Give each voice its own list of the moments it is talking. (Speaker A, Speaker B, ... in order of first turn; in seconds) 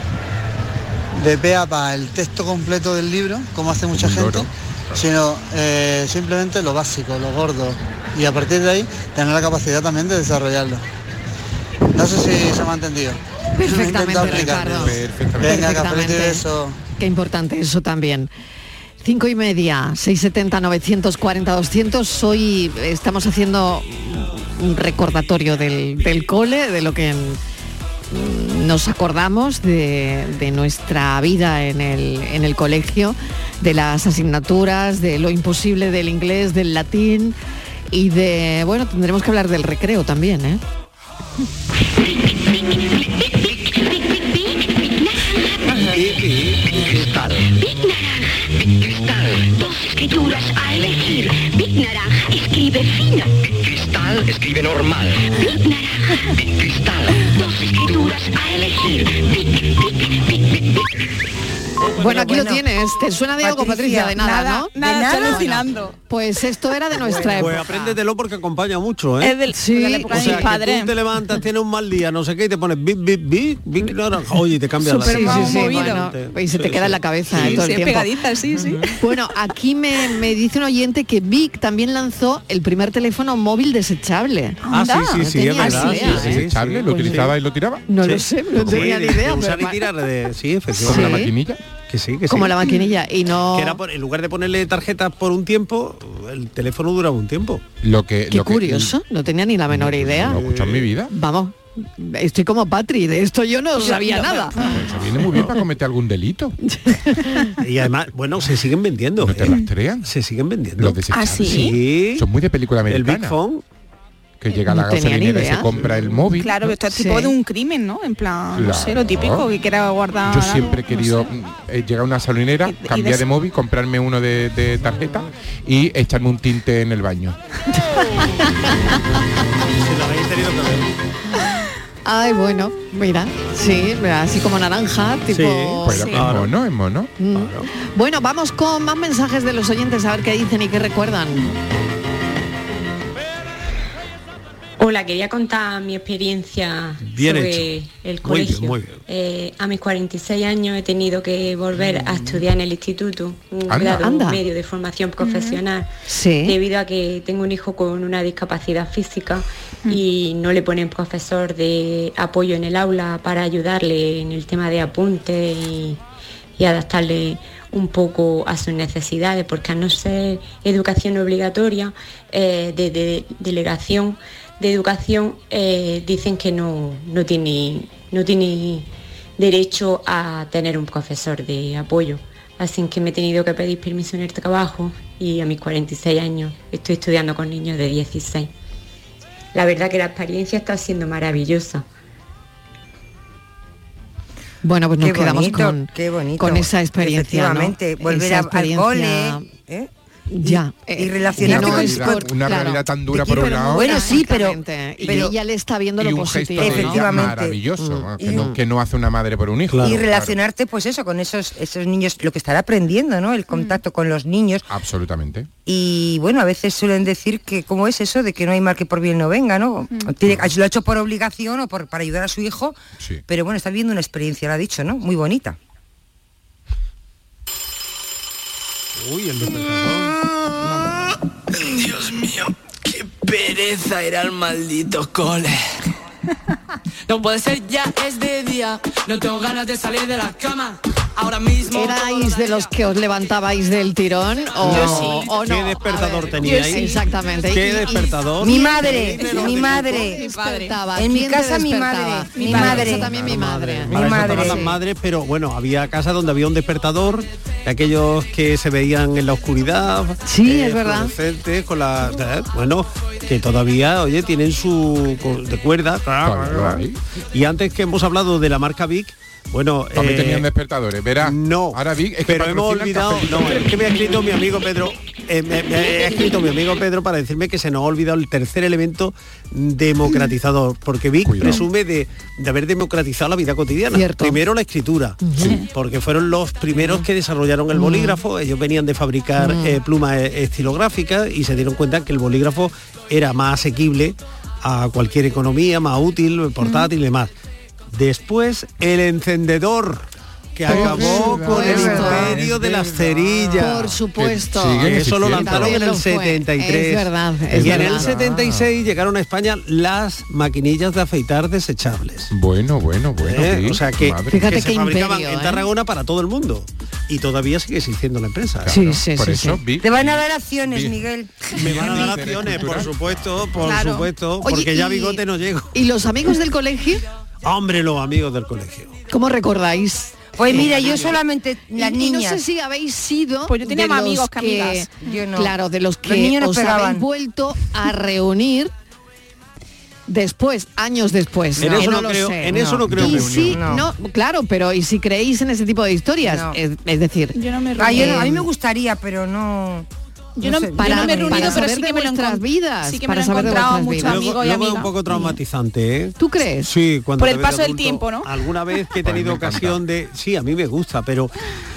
Speaker A: 1.1-10.8, 11.9-16.8
Speaker B: 3.9-5.1, 14.1-15.8, 86.0-87.9, 88.6-88.9, 90.8-91.6, 97.8-99.0, 99.7-101.1, 104.6-106.6, 109.2-110.1, 110.8-113.4, 114.4-116.6, 118.5-119.5, 120.2-127.4, 135.8-137.1, 153.7-154.1, 201.4-204.2, 206.0-210.4, 214.7-215.5, 220.3-220.5, 266.2-267.0, 269.9-273.8, 281.2-281.6, 300.6-305.8, 307.5-308.6, 312.3-314.6, 318.6-321.0, 321.5-323.8, 359.0-359.8
Speaker C: 13.6-16.4, 17.0-18.3, 19.0-27.4, 28.1-37.4, 37.9-40.6, 62.0-68.0, 69.5-70.5, 74.8-78.1, 78.9-86.4, 87.0-87.3, 87.9-89.9, 90.8-91.3, 92.3-93.8, 98.3-100.4, 101.1-104.7, 105.3-105.6, 106.6-107.5, 114.7-115.8, 116.9-117.3, 131.4-136.3, 137.2-141.6, 154.0-154.4, 156.1-156.5, 194.6-199.5, 200.3-208.6, 241.7-254.8, 260.2-261.1, 283.9-284.4, 285.2-285.6, 286.8-287.0, 287.7-288.2, 289.4-289.8, 300.7-302.4, 303.6-308.6, 314.3-315.7, 318.7-319.6, 324.4-325.2, 325.7-327.0, 329.1-331.2, 331.8-338.7, 340.1-348.5, 350.8-354.3, 356.2-356.7
Speaker D: 45.9-47.5, 67.1-69.4, 70.1-77.7, 84.7-87.3, 88.0-91.3, 91.9-92.8, 93.5-97.6, 100.2-100.9, 107.6-112.3, 112.9-113.6, 129.8-130.9, 135.3-136.5, 137.3-137.7, 147.0-147.7, 148.2-149.0, 209.7-210.1, 229.0-230.2, 244.6-250.1, 252.5-270.5, 271.2-297.3, 297.9-304.1, 304.7-312.3, 313.2-318.8, 321.6-325.8, 327.4-329.0, 341.6-343.6, 354.0-361.4
Speaker E: 49.0-55.0, 56.6-59.2
Speaker F: 62.0-62.6, 63.4-65.7, 67.1-67.5, 195.0-199.9, 200.4-202.5, 203.1-205.3, 206.6-207.6, 208.2-208.5, 209.8-214.7, 215.7-222.8, 223.3-225.6, 248.4-250.2, 250.9-253.3, 253.9-254.6, 319.8-321.5, 330.4-332.4, 335.0-337.1, 342.5-343.9, 346.2-346.6, 347.8-349.9, 350.4-351.7
Speaker G: 64.2-66.0, 69.2-70.9, 75.0-76.0, 77.4-79.0, 84.6-86.2, 103.8-104.8, 111.1-111.8, 116.4-121.3, 122.6-123.2, 135.9-136.2, 155.2-155.6, 213.5-213.8, 244.7-245.2, 249.2-250.8, 252.4-252.8, 323.6-324.1, 333.5-335.1, 347.4-348.3, 350.4-354.9, 357.2-358.3
Speaker H: 144.8-155.9, 156.4-166.0, 166.6-188.5, 189.5-191.8
Speaker I: 231.6-235.6, 237.1-242.5